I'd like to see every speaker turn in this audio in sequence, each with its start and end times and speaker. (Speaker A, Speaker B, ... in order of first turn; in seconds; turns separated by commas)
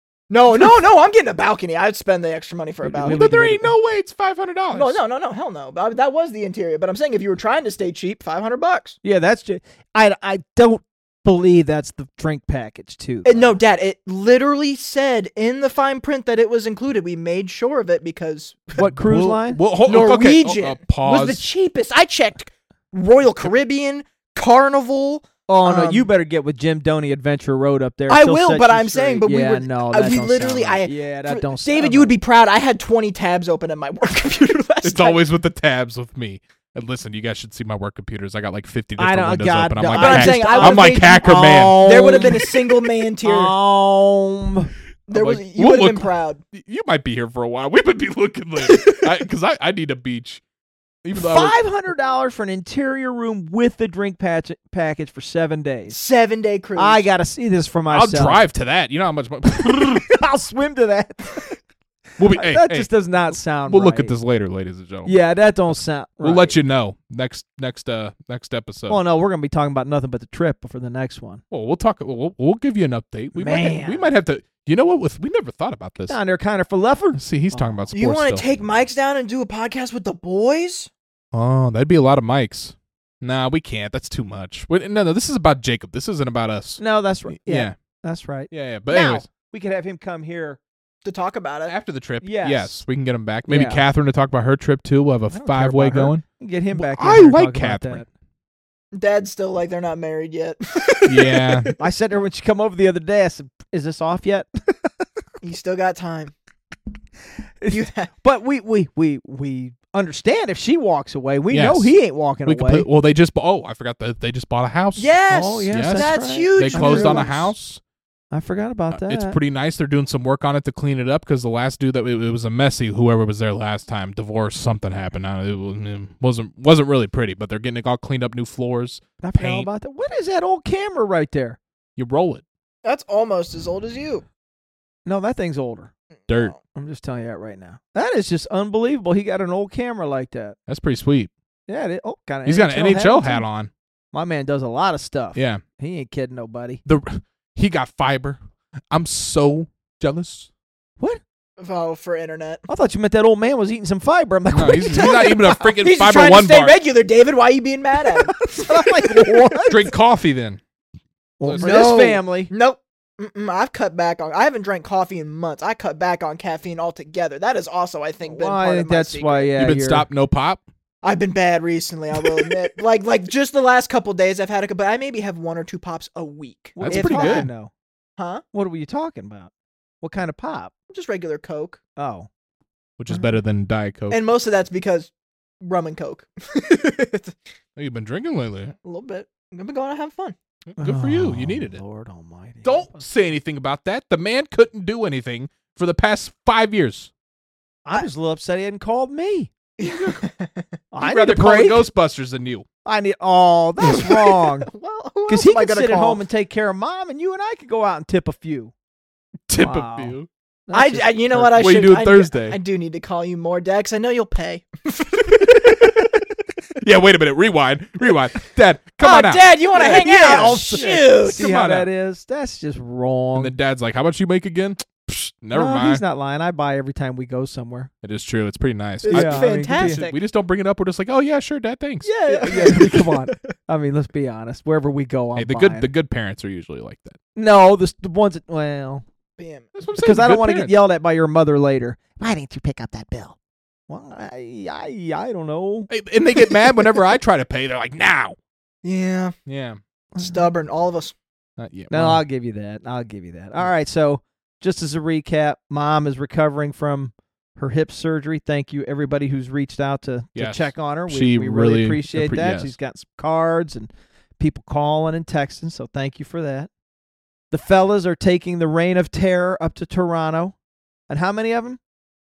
Speaker A: 0.3-3.3, Speaker B: 2.8-3.7, Speaker C: 3.0-5.0, Speaker A: 4.7-9.0, Speaker B: 9.0-13.6, Speaker A: 13.2-18.8, Speaker B: 18.8-19.6, Speaker C: 18.8-21.5, Speaker A: 19.9-26.1, Speaker B: 25.5-32.1, Speaker A: 28.1-35.2, Speaker C: 34.8-42.3, Speaker B: 39.0-42.5, Speaker A: 40.0-43.5, Speaker B: 43.2-44.7, Speaker A: 45.1-46.4, Speaker C: 45.1-50.4, Speaker C: 51.0-51.6, Speaker B: 51.1-56.0, Speaker A: 55.9-57.0, Speaker B: 56.8-58.4, Speaker C: 57.9-60.1, Speaker B: 59.8-61.5, Speaker C: 62.2-62.9, Speaker B: 62.3-64.1, Speaker C: 63.6-65.2, Speaker B: 65.0-66.5, Speaker C: 66.2-69.0, Speaker B: 68.9-71.4, Speaker C: 71.5-76.2, Speaker B: 73.4-74.1, Speaker B: 76.0-77.9, Speaker C: 77.1-78.4, Speaker A: 77.9-80.9, Speaker C: 81.3-87.7, Speaker B: 86.8-90.6, Speaker C: 88.5-89.2, Speaker A: 91.0-91.7, Speaker C: 91.7-98.0, Speaker B: 92.2-92.8, Speaker B: 93.5-93.8, Speaker B: 95.3-98.1, Speaker A: 98.9-101.7, Speaker C: 101.0-101.7, Speaker B: 101.8-105.0, Speaker A: 105.4-106.3, Speaker B: 107.6-112.9, Speaker A: 107.7-108.1, Speaker C: 111.5-115.1, Speaker A: 115.0-117.5, Speaker B: 115.3-117.3, Speaker C: 115.7-117.8, Speaker B: 118.3-119.4, Speaker C: 118.9-129.7, Speaker B: 129.2-131.6, Speaker C: 131.9-132.4, Speaker A: 132.8-134.2, Speaker B: 135.0-135.9, Speaker A: 136.3-136.6, Speaker B: 136.7-140.6, Speaker C: 140.7-141.3, Speaker B: 141.7-143.5, Speaker C: 142.4-143.7, Speaker B: 144.1-146.8, Speaker C: 145.3-145.6, Speaker C: 146.8-148.4, Speaker C: 148.9-150.5, Speaker A: 151.6-152.6, Speaker B: 152.7-155.3, Speaker C: 154.5-156.7, Speaker A: 154.9-159.7, Speaker B: 158.1-159.9, Speaker C: 159.7-160.6, Speaker B: 161.4-162.5, Speaker C: 161.4-161.9, Speaker A: 161.6-169.5, Speaker B: 168.2-170.1, Speaker C: 169.6-170.6, Speaker A: 171.0-177.5, Speaker B: 176.8-177.7, Speaker C: 176.8-177.5, Speaker A: 178.2-178.4, Speaker B: 178.5-179.5, Speaker B: 180.0-180.7, Speaker A: 180.9-181.8, Speaker B: 181.9-182.3, Speaker C: 183.0-184.2, Speaker A: 184.1-187.3, Speaker C: 187.8-188.7, Speaker A: 188.8-190.3, Speaker C: 190.7-191.8, Speaker B: 190.8-193.0, Speaker C: 192.6-197.1, Speaker B: 197.8-199.5, Speaker A: 199.8-200.8, Speaker C: 199.8-200.2, Speaker B: 200.9-201.9, Speaker C: 201.0-202.7, Speaker B: 202.8-204.7, Speaker A: 203.9-206.2, Speaker B: 205.3-208.7, Speaker C: 209.5-210.3, Speaker B: 209.6-210.2, Speaker B: 210.7-211.6, Speaker A: 210.7-216.1, Speaker C: 211.6-212.6, Speaker C: 215.4-216.0, Speaker C: 216.8-221.9, Speaker A: 219.0-221.5, Speaker B: 219.7-223.6, Speaker C: 223.3-226.0, Speaker B: 225.5-227.9, Speaker C: 228.0-232.1, Speaker A: 229.0-230.0, Speaker B: 229.1-230.2, Speaker A: 232.0-233.5, Speaker B: 232.3-235.9, Speaker C: 235.3-237.2, Speaker B: 237.3-239.0, Speaker A: 239.4-239.7, Speaker C: 239.7-240.7, Speaker B: 240.0-243.3, Speaker B: 243.9-245.9, Speaker C: 245.9-248.3, Speaker A: 248.8-249.3, Speaker C: 249.5-249.8, Speaker B: 250.1-250.5, Speaker A: 250.2-251.1, Speaker C: 251.6-252.2, Speaker B: 251.9-266.7, Speaker C: 260.3-262.8, Speaker B: 267.5-270.6, Speaker B: 271.1-271.8